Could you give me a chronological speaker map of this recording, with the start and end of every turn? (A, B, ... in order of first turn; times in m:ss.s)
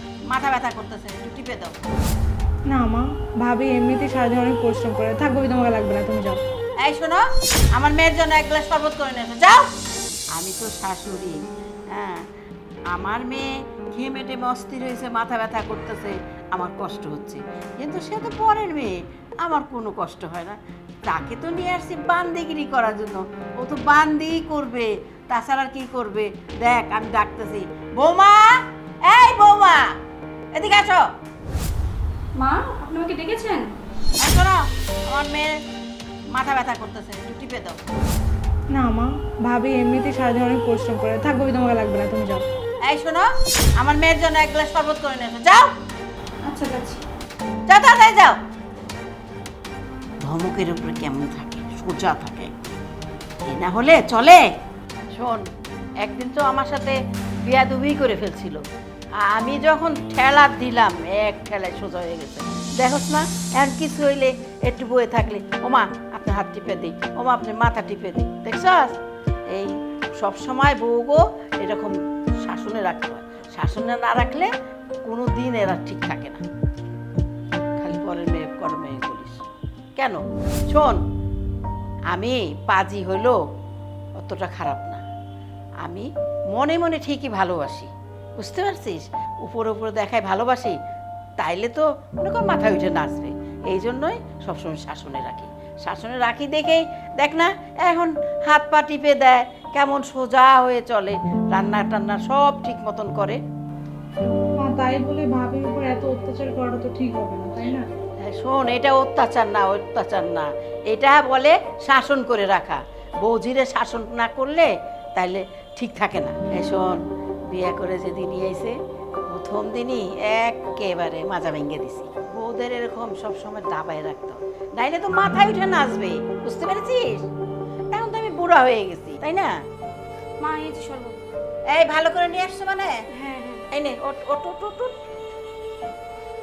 0:00.3-0:01.7 A
0:02.7-0:06.4 B
0:06.8-0:07.2 A
0:07.8-0:09.6 A
0:10.4-0:11.4 A
0:11.9-0:12.2 A
0:12.9-0:29.9 A
0:30.6-0:31.0 A
0:32.4-0:33.7 C
0:34.2-0:35.5 A
0:36.3-0:37.8 A
0:38.7-0:42.4 B
0:42.8-0:45.7 A
0:46.5-0:46.9 C
0:47.7-0:48.4 A
0:50.2-0:52.5 A
0:53.4-0:54.4 A
0:55.2-0:55.4 A
0:56.0-0:58.6 A
0:59.2-1:09.0 A
1:09.5-1:14.5 A
1:15.0-1:16.4 A
1:17.8-1:19.4 A
1:20.7-1:21.0 A
1:22.1-1:23.4 A
1:24.2-1:25.0 A
1:25.8-1:30.8 A
1:31.4-1:43.4 A
1:44.3-1:47.8 B
1:48.2-1:58.8 A
1:59.3-2:07.3 A
2:07.9-2:09.5 A
2:10.4-2:11.2 C
2:11.7-2:13.0 A
2:13.1-2:13.7 C
2:13.7-2:14.9 A